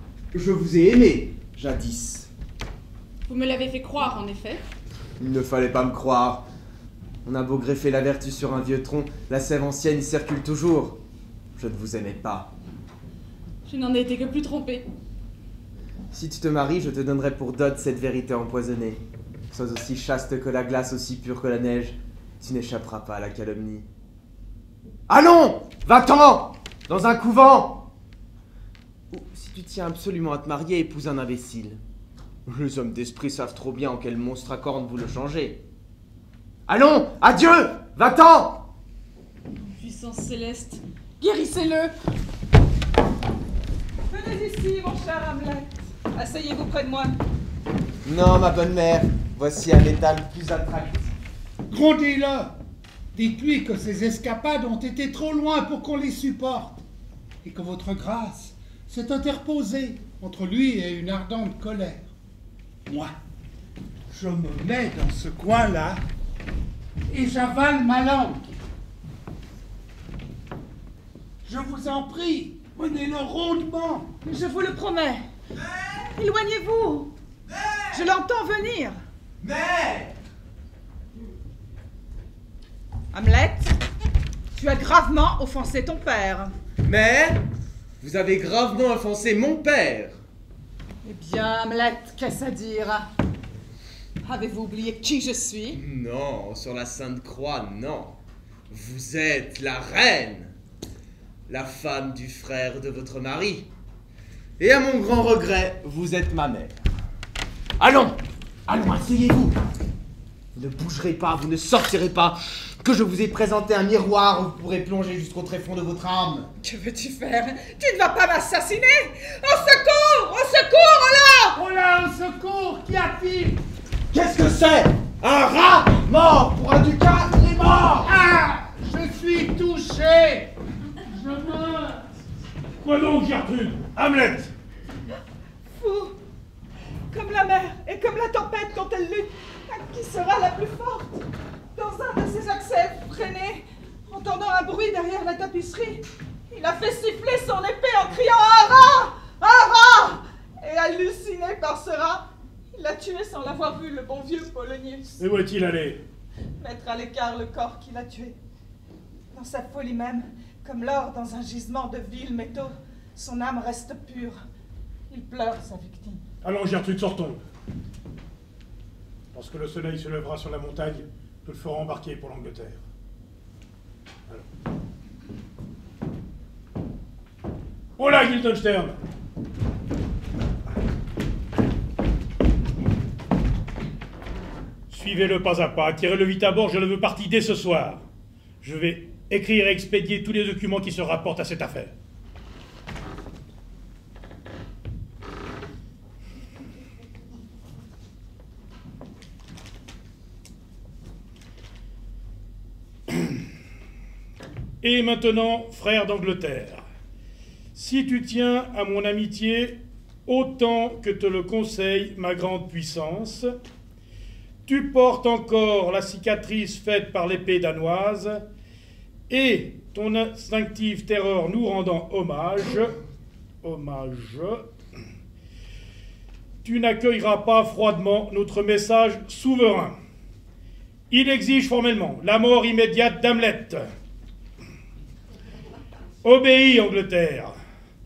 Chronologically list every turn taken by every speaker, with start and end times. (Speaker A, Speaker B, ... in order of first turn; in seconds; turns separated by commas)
Speaker A: 0.3-2.3, Speaker B: 3.3-4.6, Speaker A: 5.2-6.4, Speaker A: 7.2-11.0, Speaker A: 11.6-12.5, Speaker B: 13.7-14.9, Speaker A: 16.1-23.8, Speaker A: 25.1-27.8, Speaker A: 29.1-31.8, Speaker A: 32.5-35.6, Speaker A: 36.7-38.6, Speaker B: 39.6-41.9, Speaker C: 44.1-47.1, Speaker A: 48.0-51.1, Speaker D: 51.7-52.5, Speaker D: 53.1-56.8, Speaker D: 57.4-62.1, Speaker D: 62.9-63.1, Speaker D: 64.1-66.0, Speaker D: 67.1-68.4, Speaker D: 71.4-74.1, Speaker C: 74.2-75.2, Speaker A: 75.6-76.1, Speaker C: 76.2-77.1, Speaker A: 77.5-78.1, Speaker C: 77.9-79.0, Speaker A: 79.4-80.1, Speaker C: 83.1-83.7, Speaker C: 84.5-86.5, Speaker A: 86.8-87.4, Speaker A: 88.0-90.2, Speaker C: 91.0-93.0, Speaker C: 94.2-95.8, Speaker A: 95.7-98.2, Speaker A: 98.7-100.5, Speaker A: 101.5-103.7, Speaker A: 104.6-106.8, Speaker A: 107.8-108.2, Speaker A: 108.7-109.6, Speaker A: 110.5-116.5, Speaker C: 116.6-121.6, Speaker D: 121.5-123.6, Speaker A: 124.1-128.1, Speaker D: 128.0-130.5, Speaker D: 131.0-132.0, Speaker E: 132.8-134.5, Speaker C: 135.8-136.2, Speaker C: 137.1-141.2, Speaker C: 141.7-155.2, Speaker E: 155.2-156.0, Speaker C: 156.6-158.4, Speaker C: 159.3-164.4, Speaker C: 165.1-166.2, Speaker E: 166.4-167.4, Speaker E: 169.3-172.8, Speaker E: 178.0-178.9, Speaker E: 184.9-188.0, Speaker E: 188.6-191.9, Speaker E: 204.8-206.8, Speaker E: 207.7-213.5, Speaker E: 214.7-218.4, Speaker E: 219.3-222.9, Speaker E: 223.6-224.7, Speaker E: 226.6-229.9, Speaker E: 231.1-233.9, Speaker E: 236.2-237.6